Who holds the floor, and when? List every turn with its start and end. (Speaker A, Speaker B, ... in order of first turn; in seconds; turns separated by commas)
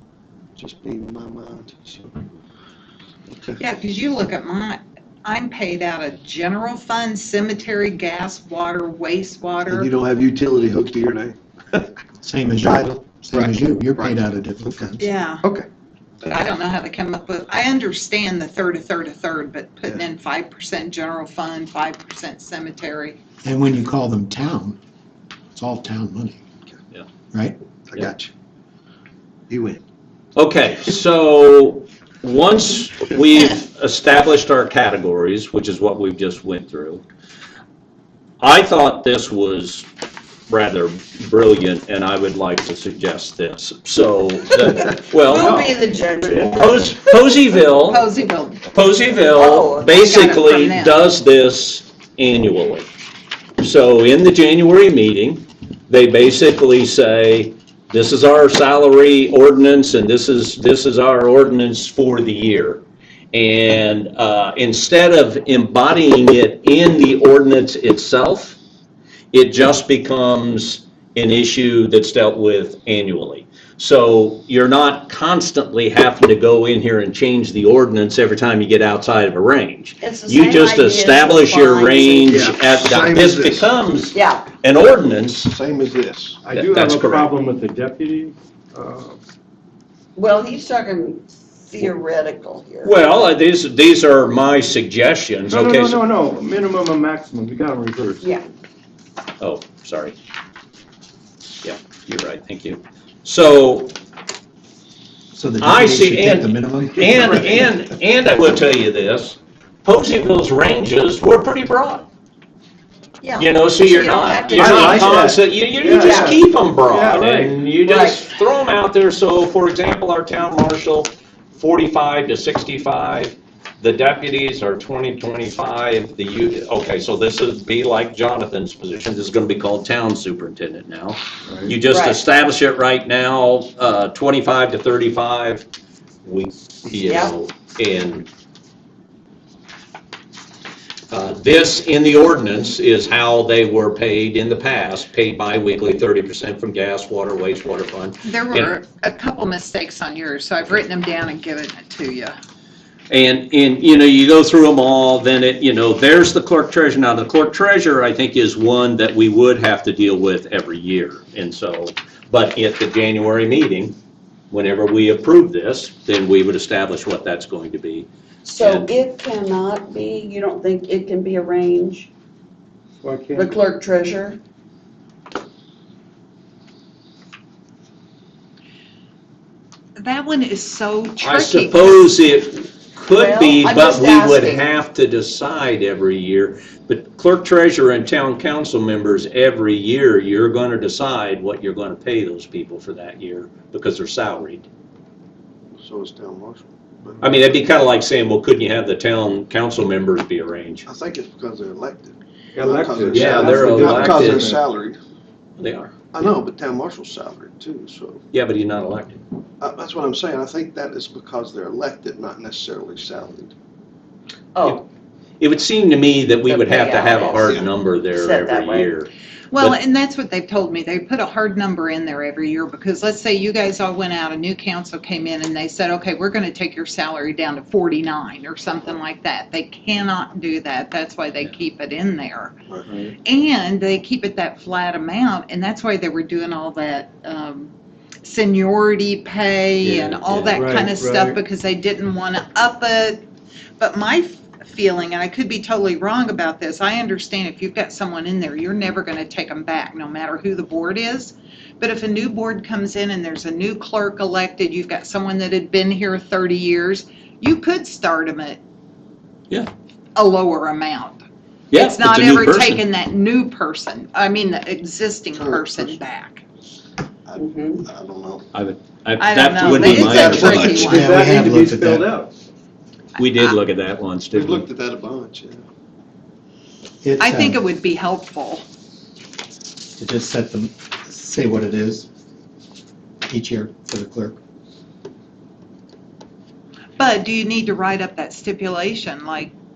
Speaker A: 0.6-2.2, Speaker A: 3.3-3.6, Speaker B: 3.6-9.9, Speaker A: 9.7-11.9, Speaker C: 12.2-15.0, Speaker A: 13.3-14.2, Speaker A: 14.7-15.7, Speaker B: 15.0-15.4, Speaker B: 16.3-23.2, Speaker C: 23.4-24.8, Speaker C: 25.5-26.4, Speaker C: 27.3-27.6, Speaker A: 27.9-28.3, Speaker A: 29.5-29.8, Speaker D: 30.4-37.0, Speaker D: 38.4-39.9, Speaker D: 40.5-45.7, Speaker E: 45.1-47.0, Speaker D: 46.3-48.0, Speaker B: 47.9-48.6, Speaker D: 48.7-52.9, Speaker E: 49.2-50.1, Speaker B: 49.9-51.0, Speaker D: 53.6-68.6, Speaker D: 69.3-85.5, Speaker E: 80.0-82.5, Speaker A: 82.3-83.7, Speaker E: 84.1-84.5, Speaker A: 85.5-86.4, Speaker F: 86.4-89.2, Speaker D: 86.5-87.4, Speaker E: 90.2-93.0, Speaker D: 92.8-96.0, Speaker F: 95.5-98.3, Speaker E: 98.2-98.5, Speaker D: 99.4-100.2, Speaker D: 101.6-103.9, Speaker C: 105.3-107.7, Speaker D: 105.6-112.1, Speaker E: 113.2-115.2, Speaker D: 113.4-135.7, Speaker F: 114.5-117.6, Speaker E: 116.0-116.4, Speaker E: 117.8-118.2, Speaker F: 131.5-131.7, Speaker E: 131.9-132.2, Speaker D: 136.2-138.3, Speaker E: 137.0-137.3, Speaker D: 141.1-148.7, Speaker B: 148.2-152.3, Speaker D: 153.1-164.0, Speaker D: 164.5-168.9, Speaker E: 168.4-172.1, Speaker F: 173.0-173.6, Speaker E: 173.3-174.4, Speaker B: 180.0-182.1, Speaker D: 181.2-194.7, Speaker E: 183.1-184.7, Speaker A: 195.8-197.2, Speaker D: 197.2-200.9, Speaker A: 200.9-205.0, Speaker F: 202.5-204.7, Speaker D: 203.1-204.5, Speaker E: 203.4-203.8, Speaker D: 205.6-205.9, Speaker A: 206.1-208.2, Speaker D: 208.3-209.2, Speaker A: 209.6-213.5, Speaker E: 214.6-214.8, Speaker D: 215.4-219.8, Speaker E: 216.5-217.6, Speaker E: 218.1-219.0, Speaker B: 219.5-232.6, Speaker F: 232.9-233.2, Speaker B: 233.2-237.7, Speaker B: 238.2-243.2, Speaker D: 239.8-240.9, Speaker F: 240.6-241.4, Speaker B: 243.8-258.6, Speaker B: 260.1-261.2, Speaker D: 261.7-262.8, Speaker B: 261.7-266.4, Speaker A: 265.3-266.0, Speaker A: 267.3-268.5, Speaker E: 267.4-267.9, Speaker D: 268.5-271.1, Speaker B: 269.2-271.1, Speaker F: 269.6-269.9, Speaker A: 270.0-271.0, Speaker C: 270.1-272.1, Speaker F: 270.9-272.3, Speaker B: 273.2-273.6, Speaker D: 273.2-274.7, Speaker A: 274.3-275.6, Speaker C: 277.0-277.6, Speaker B: 277.2-278.6, Speaker C: 280.0-282.1, Speaker C: 283.3-284.4, Speaker B: 287.0-289.5